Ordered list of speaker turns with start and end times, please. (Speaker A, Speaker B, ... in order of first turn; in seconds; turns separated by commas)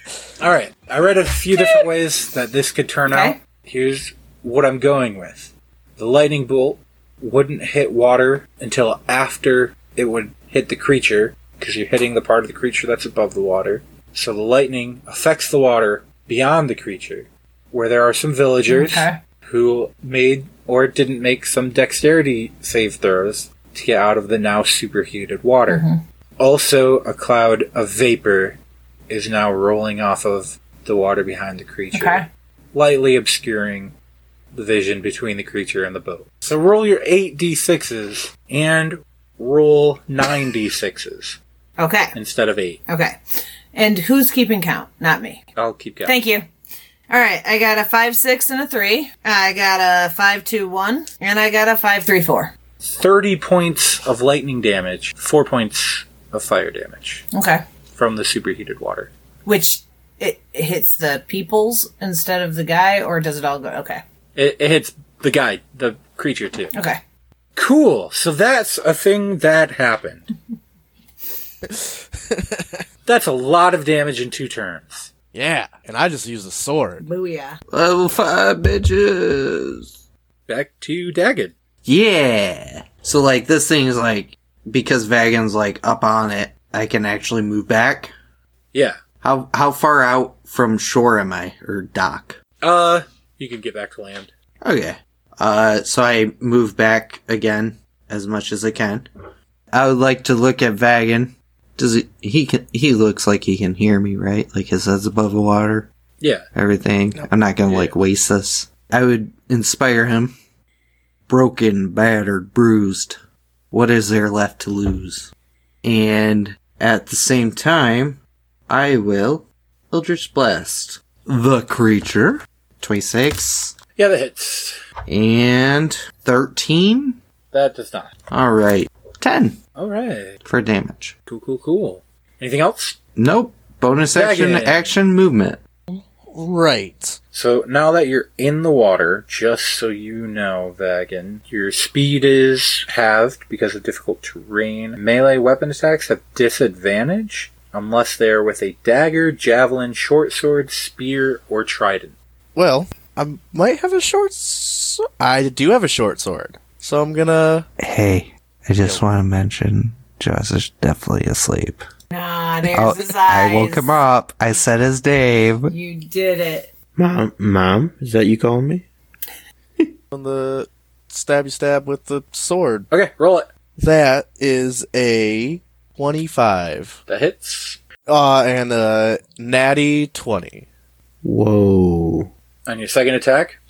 Speaker A: 0.4-25.9, Speaker B: 3.1-3.4, Speaker B: 18.7-19.2, Speaker B: 25.7-26.0, Speaker A: 26.4-28.6, Speaker A: 29.1-33.9, Speaker B: 31.9-32.3, Speaker A: 34.5-41.4, Speaker B: 41.8-42.2, Speaker A: 42.1-42.8, Speaker B: 42.9-45.4, Speaker A: 45.6-46.2, Speaker B: 46.0-46.5, Speaker B: 47.1-52.5, Speaker A: 52.8-57.3, Speaker B: 57.3-57.6, Speaker A: 58.0-59.1, Speaker B: 59.5-64.0, Speaker A: 64.4-66.7, Speaker B: 66.7-67.0, Speaker A: 67.6-70.3, Speaker C: 71.7-72.8, Speaker A: 73.0-75.1, Speaker C: 75.3-77.0, Speaker B: 77.0-77.6, Speaker D: 77.7-79.9, Speaker A: 80.5-81.5, Speaker D: 81.8-88.1, Speaker D: 89.2-92.4, Speaker A: 92.6-94.3, Speaker D: 94.6-99.1, Speaker D: 99.7-105.9, Speaker A: 106.2-106.5, Speaker D: 106.5-110.4, Speaker A: 107.7-107.9, Speaker D: 111.3-113.2, Speaker D: 113.7-115.3, Speaker D: 115.8-123.8, Speaker A: 124.0-124.8, Speaker D: 125.1-127.2, Speaker A: 127.5-128.1, Speaker D: 128.3-129.6, Speaker A: 129.8-130.4, Speaker D: 130.4-131.2, Speaker A: 131.3-133.0, Speaker D: 133.2-135.6, Speaker A: 134.1-134.8, Speaker C: 135.9-137.2, Speaker A: 137.3-152.1, Speaker C: 152.6-157.7, Speaker D: 157.8-161.8, Speaker B: 162.1-163.9, Speaker D: 162.7-165.7, Speaker B: 165.7-166.7, Speaker E: 167.0-168.9, Speaker C: 170.1-172.9, Speaker A: 172.9-173.5, Speaker C: 173.8-177.0, Speaker A: 177.1-177.8, Speaker C: 178.1-180.7, Speaker E: 181.2-182.3, Speaker A: 182.7-183.6